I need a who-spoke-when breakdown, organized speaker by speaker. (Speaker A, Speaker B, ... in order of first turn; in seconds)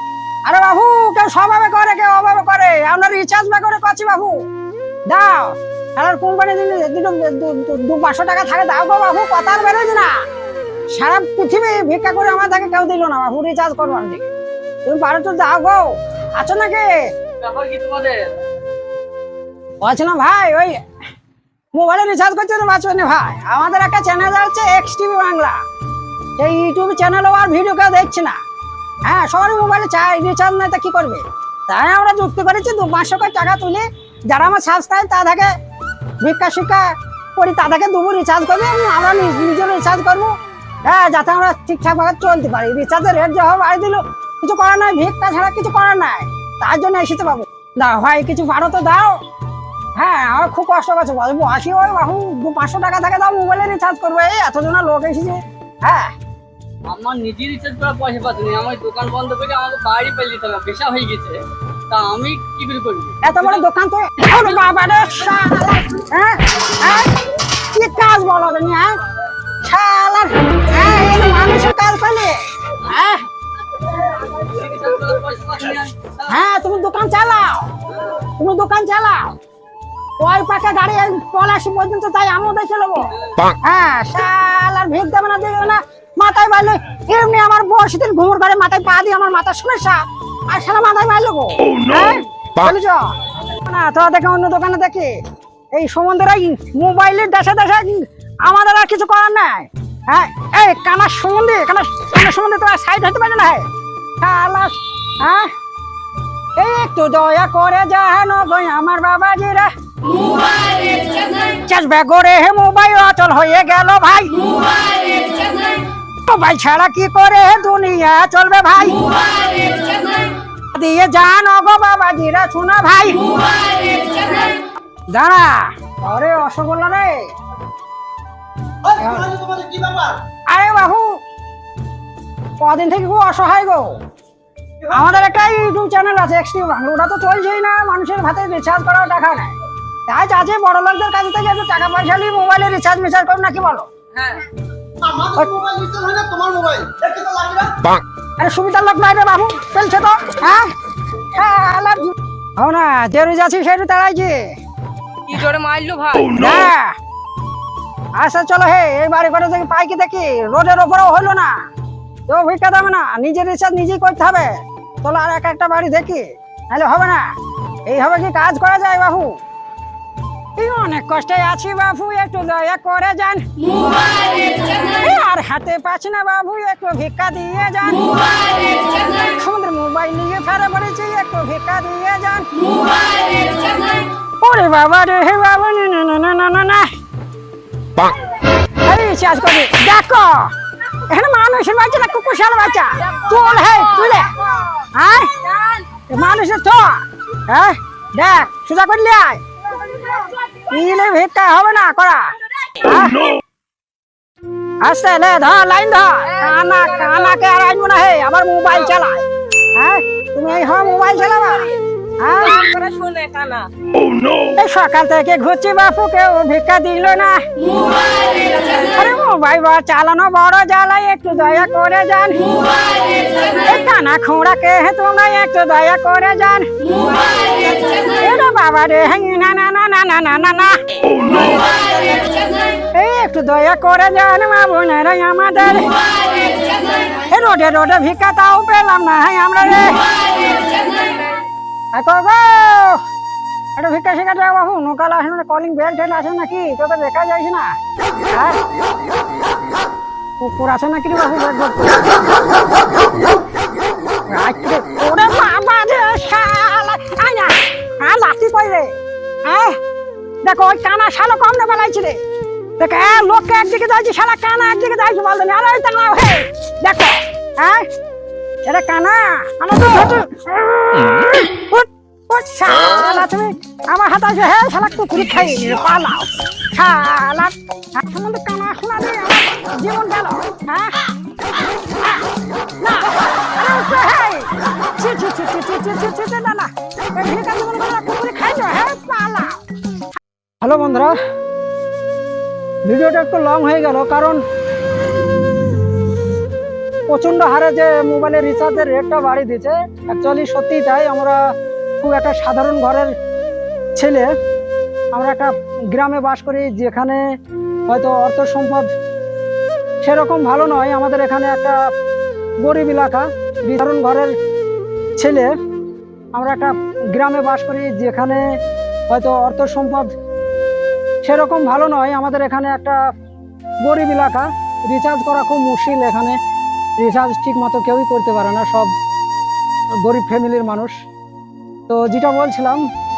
Speaker A: 0.4-4.4, 5.1-10.1, 10.9-14.2, 14.8-16.9, 19.8-20.8, 21.7-25.6, 26.4-28.4, 29.1-35.5, 36.2-40.3, 40.8-49.2, 50.0-56.1, 63.2-67.1, 67.7-69.0, 69.6-73.2, 76.3-77.7, 78.4-79.3, 80.2-93.1, 93.7-95.1, 95.7-103.7, 104.2-105.5, 106.6-109.7, 111.7-114.3, 116.3-119.0, 120.7-123.2, 125.1-127.3, 128.9-129.3, 130.5-131.2, 132.6-134.0, 134.9-139.6, 140.1-143.9, 145.3-145.6, 148.4-150.7, 151.3-154.5, 156.3-156.9, 158.2-161.6, 162.3-167.3, 167.9-169.4, 170.6-173.4, 174.8-178.1, 179.2-182.5, 184.4-186.9, 188.8-190.5, 191.1-194.3, 194.9-195.4, 196.1-199.4, 200.7-203.2, 204.8-209.2, 209.8-211.7, 212.2-212.6, 214.6-217.4, 218.9-222.4, 223.7-226.7, 228.2-230.8, 232.9-235.9, 237.3-240.0, 241.9-243.0, 243.8-247.7, 248.3-248.6, 250.4-252.0, 254.3-258.9, 259.5-259.8, 260.4-262.2, 262.8-267.9, 268.7-280.9, 282.8-289.6, 290.6-291.2, 292.9-294.4, 297.1-301.4, 302.0-303.1, 303.9-304.3, 305.1-307.2, 307.9-308.9, 310.0-311.8, 312.6-314.3, 315.2-315.5, 316.3-318.4, 319.1-320.1, 321.2-323.0, 323.8-326.4, 327.0-328.9, 330.0-331.0, 331.9-332.8
Speaker B: 17.4-18.3, 56.9-63.6, 74.3-76.2, 144.1-144.4, 155.2-156.4, 193.1-194.8, 195.5-195.8, 206.3-207.3, 210.7-211.8, 212.4-213.7, 218.6-218.9, 227.3-228.1, 231.2-232.2
Speaker C: 129.7-130.0, 145.8-147.4